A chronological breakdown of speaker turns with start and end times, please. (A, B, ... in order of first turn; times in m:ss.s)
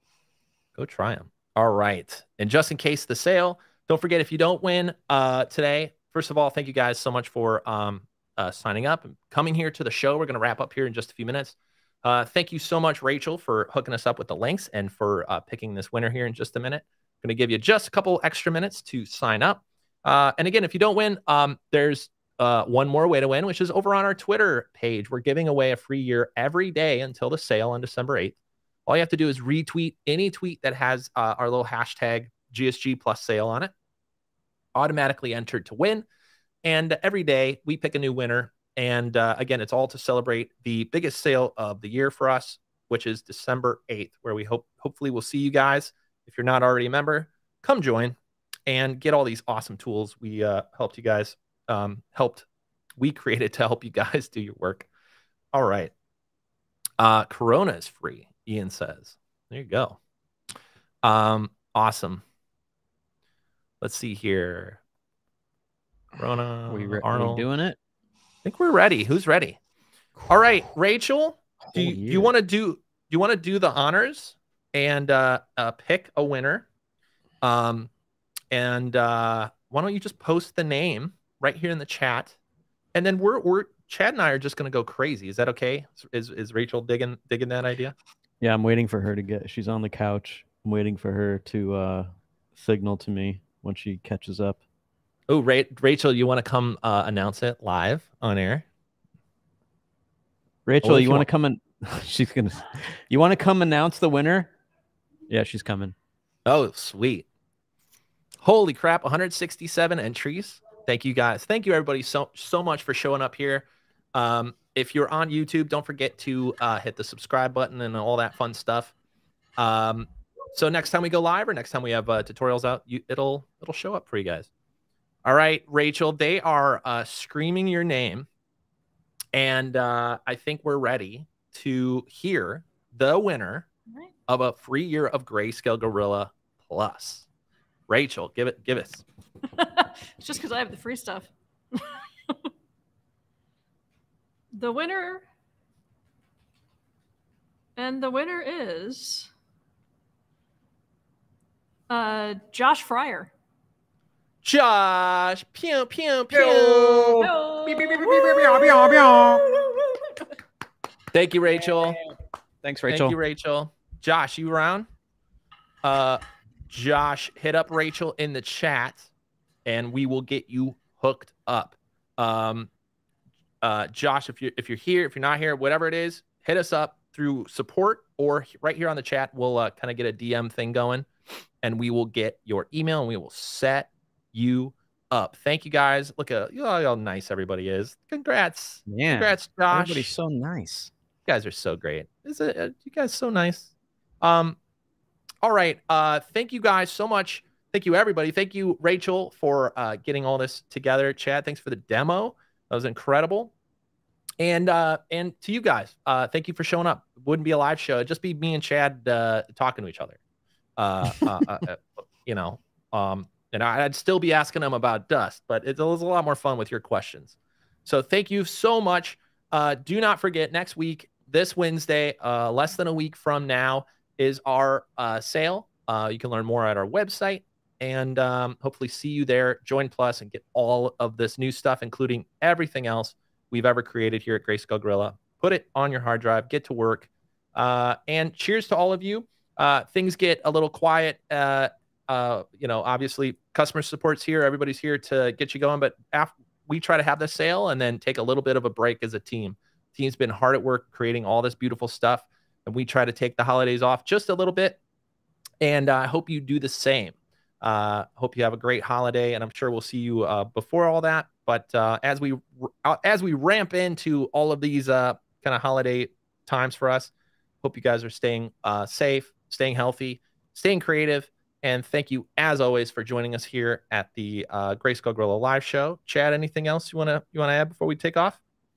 0:00.8-0:33.7 A
0:34.8-0:36.1 A
0:36.6-0:48.2 A
0:48.7-0:52.5 A
0:53.0-0:54.9 A
0:55.5-0:55.9 A
0:57.0-1:00.0 A
1:01.0-1:02.2 A
1:03.8-1:04.8 A
1:06.2-1:07.5 A
1:06.7-1:07.8 B
1:08.4-1:09.6 A
1:10.3-1:16.7 A
1:11.6-1:12.3 B
1:17.4-1:17.9 A
1:18.5-1:22.4 A
1:22.9-1:27.9 A
1:28.4-1:34.6 B
1:35.3-1:38.7 A
1:40.7-1:44.5 B
1:40.8-1:41.3 A
1:45.3-1:46.0 B
1:46.5-1:47.3 A
1:48.4-1:58.9 A
1:59.6-2:04.5 A
2:05.2-2:08.3 A
2:09.3-2:13.7 A
2:14.3-2:17.3 A
2:17.9-2:19.0 A
2:19.6-2:22.4 C
2:24.5-2:25.2 C
2:27.8-2:29.3 C
2:31.9-2:33.3 C
2:34.4-2:37.3 A
2:36.3-2:39.5 B
2:37.2-2:39.9 C
2:41.1-2:42.0 A
2:42.6-2:43.2 B
2:42.9-2:44.9 A
2:45.8-2:49.1 A
2:49.6-2:52.7 A
2:53.6-3:01.1 A
3:01.6-3:10.1 A
3:08.9-3:10.9 B
3:11.3-3:13.7 A
3:14.2-3:14.6 A
3:15.4-3:23.5 A
3:24.4-3:30.2 A
3:30.8-4:14.8 A
4:15.6-4:38.4 A